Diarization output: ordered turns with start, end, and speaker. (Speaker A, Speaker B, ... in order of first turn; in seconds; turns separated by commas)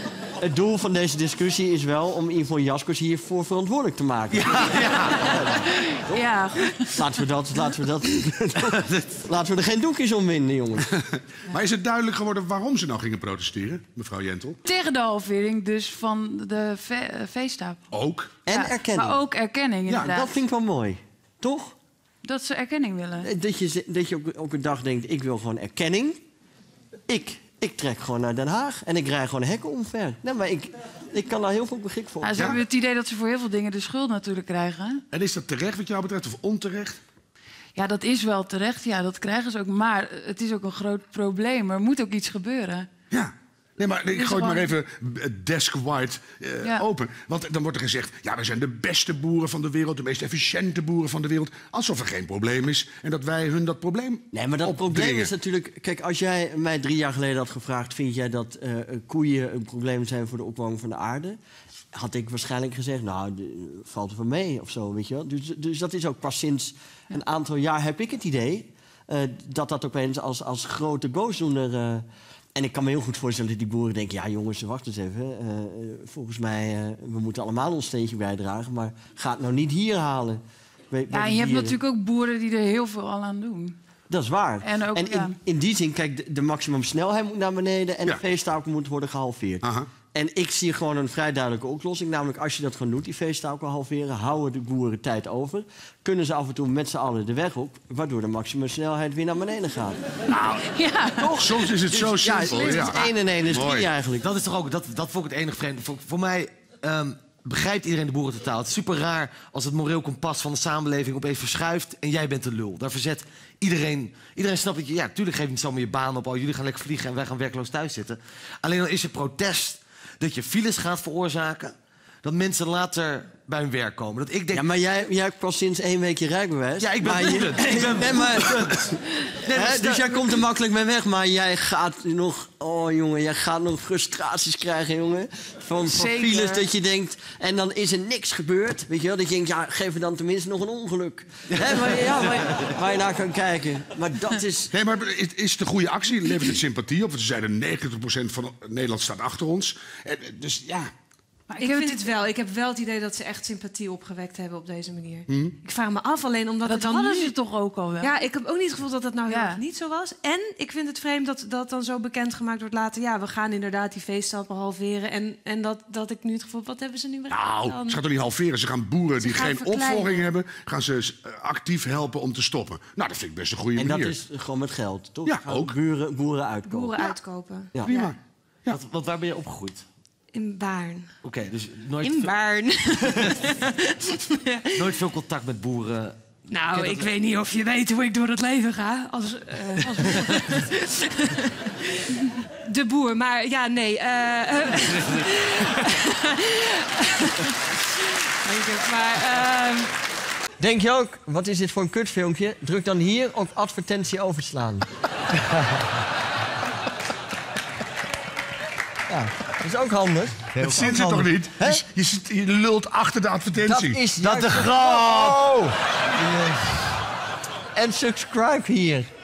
Speaker A: 0.4-6.2, Speaker B: 4.3-5.4, Speaker C: 5.9-7.0, Speaker A: 6.9-10.9, Speaker B: 8.6-9.2, Speaker D: 11.0-14.6, Speaker C: 14.7-17.8, Speaker D: 17.9-18.4, Speaker A: 18.5-19.2, Speaker C: 18.5-20.4, Speaker A: 20.0-21.8, Speaker C: 22.2-23.3, Speaker A: 23.2-26.2, Speaker A: 27.1-32.5, Speaker C: 32.2-35.0, Speaker D: 35.1-37.0, Speaker C: 37.8-42.9, Speaker D: 43.1-55.3, Speaker C: 44.1-44.7, Speaker A: 54.3-61.4, Speaker A: 61.9-81.8, Speaker C: 81.1-83.8, Speaker A: 84.1-100.0, Speaker C: 84.6-85.4, Speaker D: 89.6-89.9, Speaker C: 100.3-101.6, Speaker A: 101.2-104.3, Speaker D: 101.3-103.9, Speaker C: 102.2-103.0, Speaker B: 104.2-124.7, Speaker A: 124.5-128.9, Speaker B: 126.8-130.3, Speaker A: 129.5-144.7, Speaker C: 135.8-136.7, Speaker B: 141.5-142.7, Speaker D: 144.7-150.9, Speaker C: 151.5-152.0, Speaker E: 151.6-157.3, Speaker D: 155.3-155.6, Speaker C: 156.7-158.2, Speaker E: 158.0-168.0, Speaker C: 159.3-159.6, Speaker D: 167.3-174.2, Speaker E: 169.2-170.3, Speaker A: 173.8-177.1, Speaker D: 175.2-175.8, Speaker E: 176.7-178.1, Speaker D: 177.9-178.8, Speaker B: 178.7-179.8, Speaker E: 180.3-181.1, Speaker B: 181.2-182.4, Speaker E: 182.0-185.0, Speaker B: 184.7-187.1, Speaker E: 186.5-199.9, Speaker A: 200.6-204.8, Speaker A: 209.1-211.8, Speaker D: 210.6-214.0, Speaker A: 213.6-215.7, Speaker B: 214.2-215.3, Speaker D: 214.9-215.4, Speaker B: 216.2-217.0, Speaker A: 217.8-219.1